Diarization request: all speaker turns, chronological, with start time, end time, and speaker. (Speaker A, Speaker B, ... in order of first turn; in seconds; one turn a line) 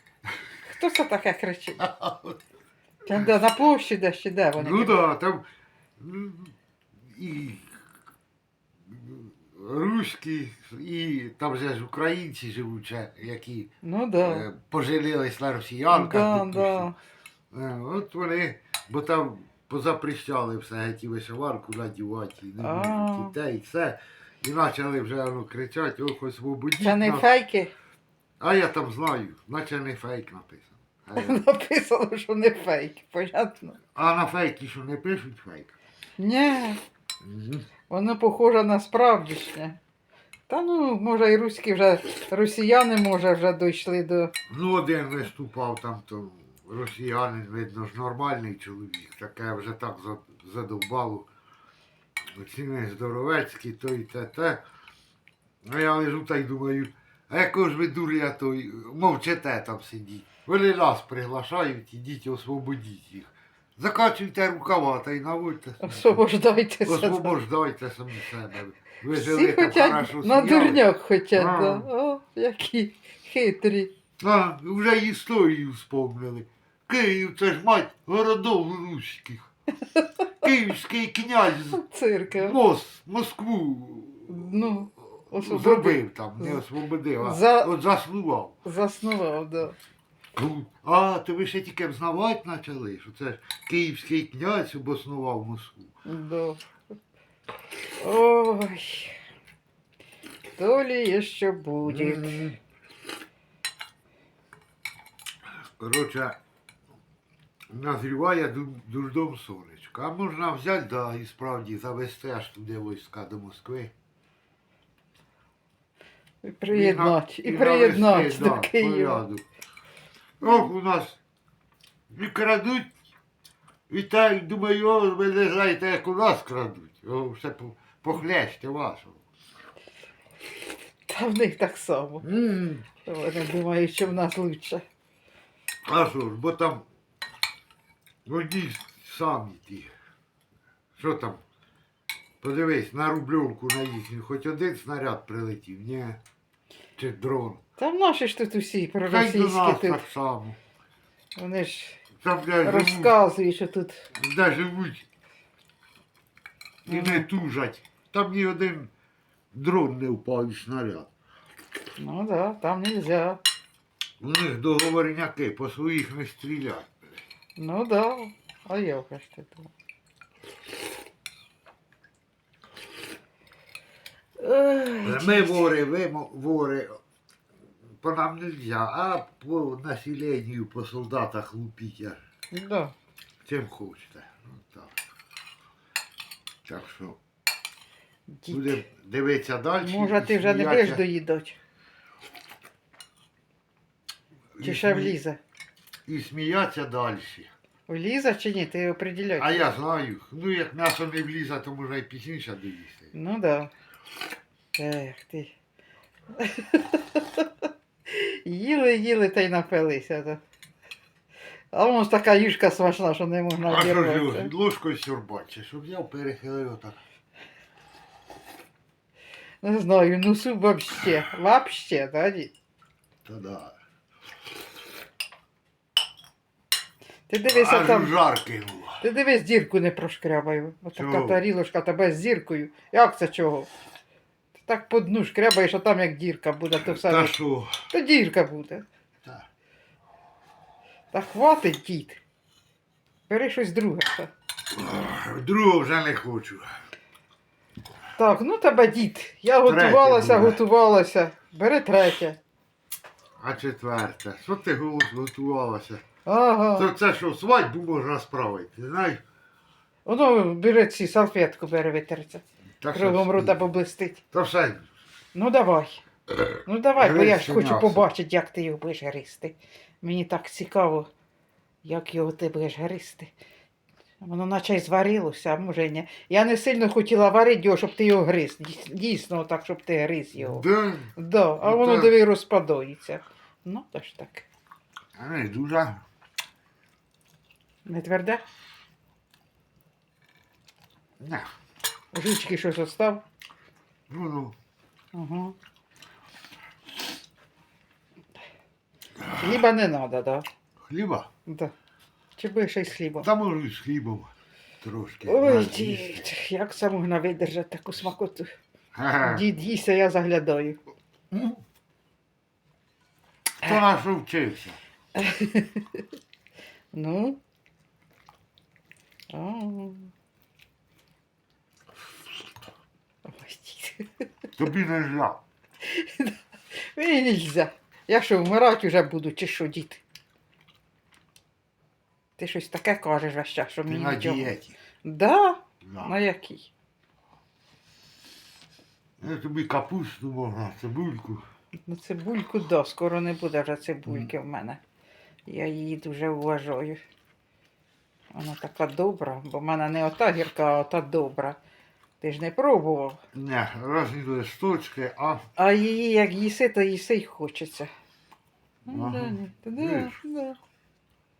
Speaker A: 0.6-1.8
Speaker B: 1.8-2.4
Speaker A: 3.0-5.0
Speaker B: 4.5-5.4
Speaker B: 6.0-6.5
Speaker B: 7.1-7.8
Speaker B: 8.9-16.9
Speaker A: 13.8-14.4
Speaker A: 15.9-16.9
Speaker B: 17.5-27.3
Speaker A: 22.6-23.3
Speaker A: 26.8-27.7
Speaker B: 28.4-31.4
Speaker A: 31.1-33.8
Speaker B: 33.9-35.7
Speaker A: 36.2-36.8
Speaker B: 37.2-37.7
Speaker A: 37.9-39.8
Speaker A: 40.5-44.3
Speaker B: 44.5-51.3
Speaker B: 52.3-54.6
Speaker B: 55.6-66.2
Speaker A: 65.8-67.3
Speaker B: 66.8-71.9
Speaker A: 69.1-73.9
Speaker B: 74.2-79.5
Speaker B: 80.4-88.5
Speaker A: 81.7-82.5
Speaker A: 84.3-86.6
Speaker A: 87.2-87.7
Speaker A: 88.6-89.8
Speaker B: 90.3-95.9
Speaker A: 96.0-96.6
Speaker A: 98.0-99.2
Speaker A: 100.6-102.5
Speaker B: 101.8-102.6
Speaker B: 105.5-106.4
Speaker B: 107.7-113.9
Speaker A: 116.4-119.2
Speaker B: 116.7-119.4
Speaker B: 120.4-121.2
Speaker B: 122.1-122.9
Speaker B: 123.9-129.2
Speaker A: 131.1-132.2
Speaker B: 132.2-132.8
Speaker A: 133.0-134.8
Speaker B: 135.8-136.8
Speaker B: 138.2-139.9
Speaker B: 140.9-141.4
Speaker B: 142.4-146.2
Speaker B: 147.0-147.6
Speaker A: 147.8-150.0
Speaker B: 149.1-150.6
Speaker A: 151.4-152.0
Speaker B: 152.2-153.1
Speaker A: 152.6-154.1
Speaker B: 154.1-155.0
Speaker B: 156.8-158.9
Speaker A: 156.9-157.2
Speaker B: 159.5-161.1
Speaker A: 162.0-163.4
Speaker B: 164.2-166.9
Speaker A: 167.6-169.7
Speaker A: 174.4-175.5
Speaker B: 175.0-177.0
Speaker B: 178.0-182.2
Speaker A: 182.5-182.9
Speaker B: 183.4-185.0
Speaker B: 186.6-187.2
Speaker A: 188.4-188.8
Speaker B: 188.5-191.0
Speaker A: 189.8-191.6
Speaker B: 194.6-195.2
Speaker A: 194.6-195.4
Speaker B: 196.1-197.5
Speaker A: 197.9-199.7
Speaker B: 199.4-203.1
Speaker A: 203.1-203.7
Speaker A: 204.8-205.5
Speaker A: 206.3-207.5
Speaker A: 208.1-210.4
Speaker A: 211.7-214.5
Speaker B: 213.7-217.0
Speaker A: 219.6-222.5
Speaker B: 223.2-223.7
Speaker A: 227.3-228.1
Speaker B: 227.4-229.0
Speaker A: 229.0-233.7
Speaker B: 230.9-231.4
Speaker A: 234.6-237.3
Speaker B: 236.8-237.8
Speaker A: 237.9-238.8
Speaker A: 241.1-242.2
Speaker A: 243.3-244.3
Speaker B: 244.7-246.7
Speaker A: 248.1-252.4
Speaker B: 249.6-250.6
Speaker B: 253.4-256.0
Speaker A: 256.2-256.9
Speaker B: 256.8-259.2
Speaker A: 260.1-264.2
Speaker B: 262.8-263.7
Speaker B: 264.3-264.9
Speaker A: 265.3-266.0
Speaker B: 266.3-268.1
Speaker A: 266.6-271.1
Speaker A: 271.8-273.3
Speaker A: 274.2-280.6
Speaker B: 280.4-282.1
Speaker A: 281.1-284.5
Speaker B: 285.1-286.0
Speaker A: 287.8-288.4
Speaker B: 291.2-291.5
Speaker A: 292.1-293.2
Speaker B: 294.1-294.5
Speaker A: 295.1-295.6
Speaker B: 299.2-299.6
Speaker A: 299.3-300.5
Speaker B: 300.9-301.3
Speaker A: 301.5-301.7
Speaker A: 302.4-303.3
Speaker B: 303.2-306.3
Speaker A: 305.2-308.5
Speaker B: 308.9-309.4
Speaker A: 309.2-310.8
Speaker B: 311.3-311.6
Speaker B: 313.6-314.8
Speaker A: 315.1-316.0
Speaker A: 316.9-317.4
Speaker A: 319.3-320.1
Speaker A: 323.2-324.2
Speaker B: 324.6-325.4
Speaker A: 325.8-326.4
Speaker A: 326.9-330.0
Speaker A: 332.4-334.5
Speaker B: 333.9-334.8
Speaker A: 335.0-336.7
Speaker B: 335.8-336.1
Speaker B: 339.2-341.5
Speaker A: 341.9-344.8
Speaker A: 345.4-347.0
Speaker A: 348.3-351.6
Speaker A: 352.2-353.2
Speaker B: 353.3-355.5
Speaker A: 355.6-357.9
Speaker A: 358.9-360.6
Speaker B: 358.9-360.1